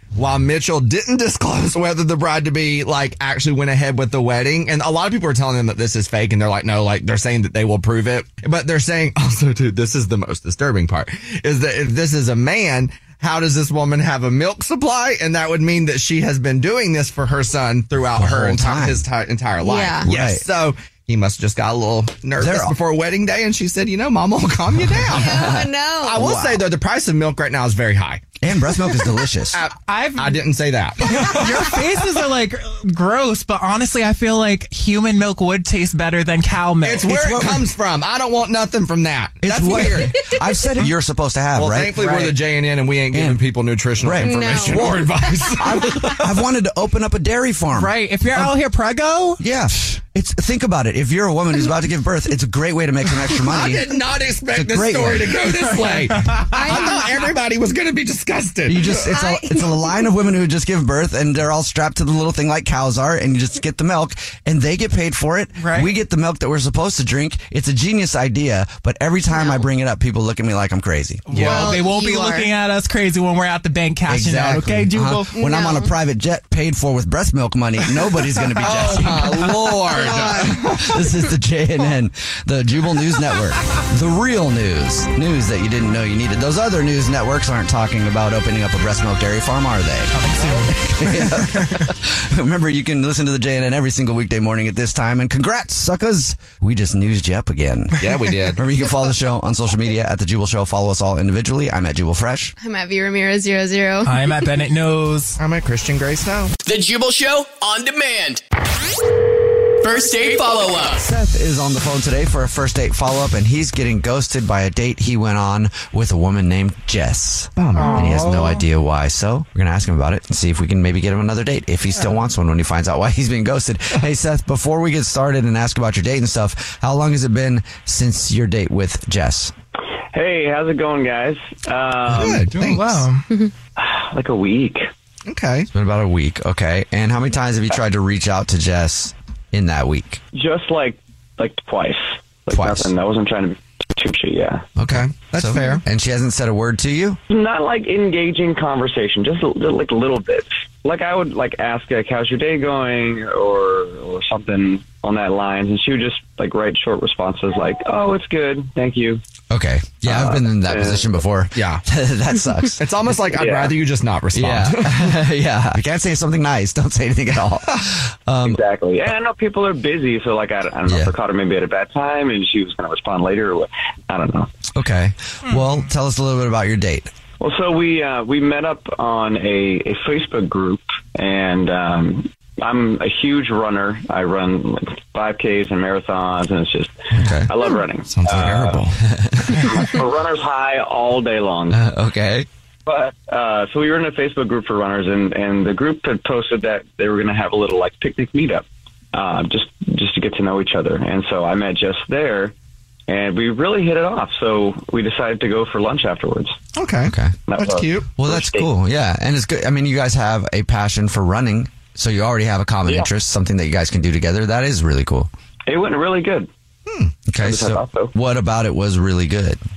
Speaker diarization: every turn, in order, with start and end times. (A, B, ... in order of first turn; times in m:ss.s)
0:00.2-0:28.2 A
0:18.2-0:19.0 B
0:19.6-0:20.1 C
0:20.0-0:20.4 B
0:22.4-0:22.8 B
0:25.1-0:26.4 C
0:25.2-0:26.6 B
0:28.4-0:29.6 B
0:29.5-0:31.9 A
0:29.8-0:37.6 D
0:36.8-0:40.3 A
0:37.2-0:37.6 B
0:39.4-0:42.0 B
0:41.6-0:46.2 A
0:41.9-0:42.4 D
0:43.1-0:43.4 B
0:44.0-0:48.6 B
0:44.2-0:45.6 C
0:47.7-0:49.4 D
0:49.4-0:53.9 B
0:53.4-0:59.2 A
0:54.5-0:55.4 B
0:55.8-0:57.3 D
0:58.7-1:11.7 B
0:59.0-1:00.1 C
1:05.6-1:05.9 D
1:09.4-1:09.6 C
1:11.3-1:15.5 D
1:11.3-1:11.7 A
1:11.4-1:12.5 C
1:14.1-1:42.6 B
1:15.3-1:15.9 C
1:18.6-1:20.9 A
1:18.6-1:19.2 D
1:20.1-1:20.4 C
1:30.1-1:31.9 D
1:38.0-1:38.6 A
1:42.6-1:44.3 C
1:44.0-1:45.4 D
1:45.4-1:46.5 A
1:46.6-1:48.4 E
1:49.8-1:51.1 E
1:51.0-2:09.5 B
1:57.6-1:58.5 A
1:57.8-1:58.5 D
2:10.1-2:12.5 F
2:12.1-2:13.1 A
2:12.5-2:13.3 D
2:13.8-2:14.9 F
2:15.3-2:15.7 A
2:15.7-2:20.2 B
2:20.3-2:24.7 F
2:22.5-2:22.9 B
2:24.8-2:27.2 B
2:24.9-2:25.8 A
2:27.3-2:39.2 F
2:39.5-2:42.8 B
2:40.0-2:41.2 F
2:41.6-2:41.8 A
2:42.8-2:45.2 A
2:43.3-2:43.8 F
2:44.3-2:48.6 B
2:48.4-2:54.5 F
2:50.9-2:51.1 B
2:54.7-2:57.1 B
2:55.5-2:55.8 D
2:57.4-3:08.8 F
3:07.2-3:07.5 B
3:08.1-3:09.0 A
3:09.1-3:09.6 B
3:09.5-3:11.8 F
3:11.7-3:12.5 B
3:12.9-3:22.5 F
3:23.1-3:26.6 F
3:26.7-3:28.2 A
3:27.1-3:27.4 B
3:27.5-3:28.7 F
3:28.2-3:35.3 B
3:35.7-3:36.5 F
3:36.9-3:37.2 A
3:37.3-3:39.6 B
3:37.4-3:38.1 F